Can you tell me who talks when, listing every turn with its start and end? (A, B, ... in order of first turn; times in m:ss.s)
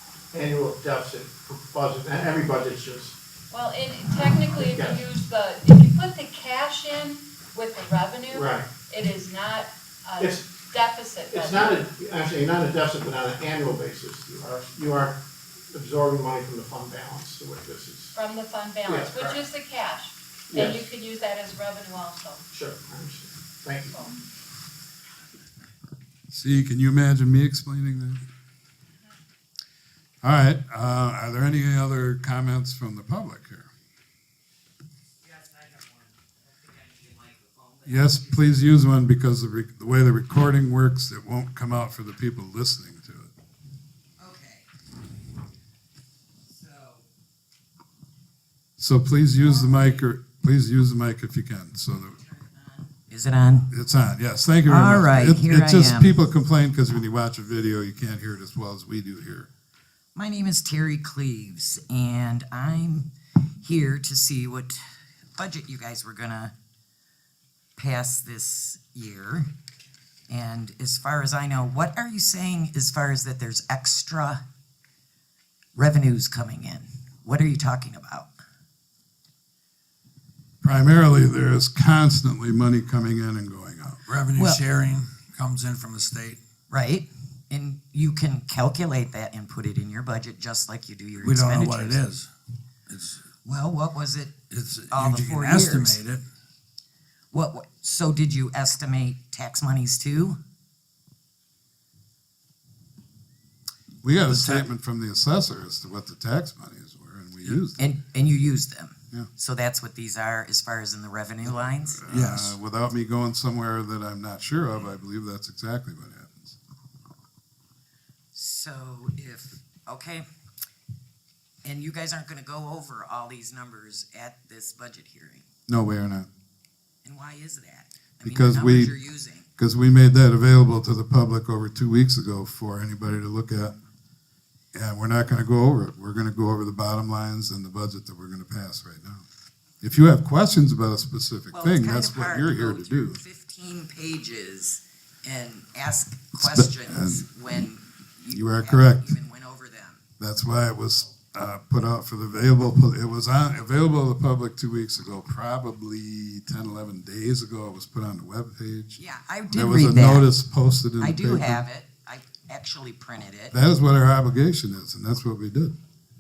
0:00.3-0:03.2 A
0:03.5-0:11.9 B
0:04.2-0:05.0 A
0:08.3-0:08.7 A
0:10.2-0:10.5 A
0:11.3-0:15.2 A
0:15.7-0:18.2 A
0:18.1-0:22.5 B
0:18.9-0:19.4 A
0:20.5-0:20.8 A
0:22.5-0:24.0 A
0:26.3-0:28.2 C
0:30.2-0:33.7 C
0:35.2-0:38.3 D
0:37.8-0:43.3 C
0:44.2-0:44.7 D
0:46.5-0:47.0 D
0:48.8-0:52.2 C
0:49.4-0:50.0 D
0:52.1-0:53.7 D
0:53.7-0:59.5 C
0:54.7-0:56.2 D
1:00.2-1:03.1 D
1:03.6-1:04.8 D
1:05.4-1:06.5 D
1:07.8-1:09.5 D
1:10.3-1:14.4 D
1:15.8-1:18.3 D
1:20.6-1:24.0 C
1:24.1-1:26.4 E
1:24.4-1:24.6 D
1:26.7-1:32.0 D
1:31.2-1:32.3 E
1:32.9-1:33.3 E
1:33.4-1:34.4 D
1:34.5-1:36.2 E
1:34.9-1:36.0 D
1:37.3-1:40.4 D
1:44.0-1:47.9 C
1:44.3-1:44.7 E
1:47.8-1:52.1 D
1:51.6-1:56.6 C
1:52.1-1:52.6 E
1:58.3-2:00.2 D
2:01.6-2:05.5 D
2:05.7-2:06.3 C
2:07.0-2:09.5 D
2:08.2-2:08.9 C
2:09.6-2:13.7 C
2:14.7-2:19.2 C
2:19.8-2:23.2 C
2:21.5-2:30.0 D
2:26.4-2:27.3 C
2:28.3-2:29.2 C
2:30.2-2:39.0 C
2:39.0-2:40.3 D
2:39.5-2:41.6 C
2:41.0-2:43.6 D
2:43.5-2:45.8 C